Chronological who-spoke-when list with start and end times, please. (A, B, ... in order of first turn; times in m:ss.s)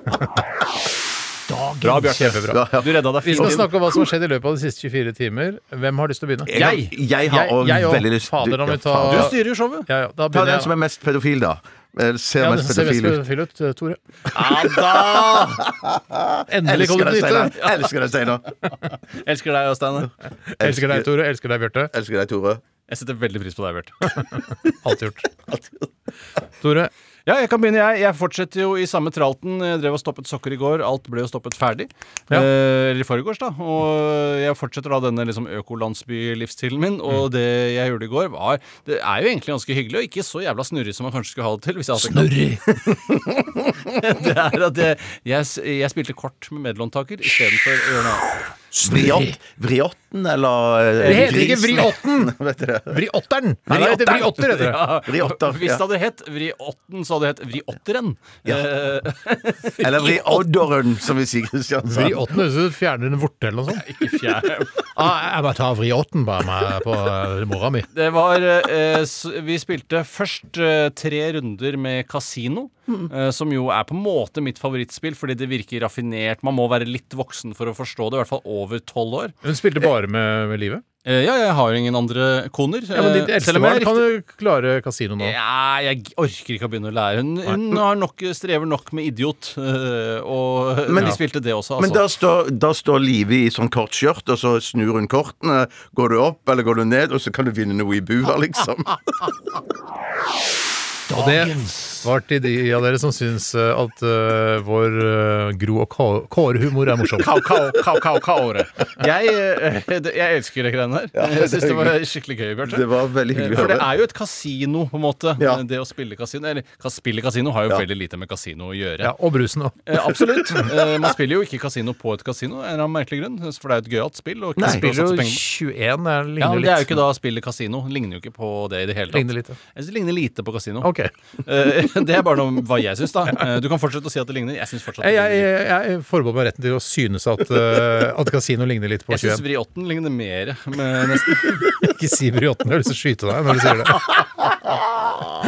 0:01.5-0:02.6 A
0:01.8-0:03.7 B
0:02.5-0:03.7 C
0:03.2-0:10.7 A
0:06.4-0:09.3 C
0:06.5-0:06.9 B
0:09.1-0:09.9 B
0:10.3-0:13.2 C
0:12.4-0:14.3 A
0:14.3-0:15.6 B
0:14.7-0:18.5 C
0:16.5-0:17.5 A
0:17.6-0:17.9 B
0:18.9-0:20.1 B
0:20.6-0:21.1 C
0:20.6-0:21.9 A
0:21.9-0:22.6 C
0:22.9-0:24.1 B
0:24.8-0:25.3 A
0:25.5-0:25.9 C
0:26.6-0:26.9 A
0:27.2-0:42.4 B
0:42.0-0:42.6 A
0:43.9-0:48.3 B
0:48.7-0:49.4 A
0:48.8-0:53.0 C
0:51.0-0:51.9 B
0:51.0-0:52.3 A
0:52.9-0:54.8 A
0:53.7-1:00.4 B
0:54.9-0:55.8 C
0:59.8-1:02.3 C
1:01.8-1:03.8 A
1:03.7-1:04.8 B
1:04.9-1:07.9 A
1:07.9-1:19.3 B
1:19.4-1:20.8 A
1:21.0-1:24.1 B
1:22.9-1:25.4 A
1:25.2-1:32.0 B
1:30.9-1:31.2 C
1:31.8-1:39.3 C
1:41.1-1:47.3 A
1:41.1-1:42.0 B
1:47.2-1:59.1 B
1:51.1-1:52.0 C
1:52.6-1:53.9 C
1:55.4-1:55.6 C
1:59.0-1:59.8 A
1:59.8-2:05.4 B
2:00.0-2:00.7 C
2:04.6-2:04.8 C
2:04.6-2:07.0 A
2:06.4-2:10.9 B
2:09.1-2:09.6 A
2:10.8-2:11.1 A
2:11.4-2:15.5 B
2:15.0-2:19.4 A
2:19.1-2:21.7 B
2:21.7-2:24.1 A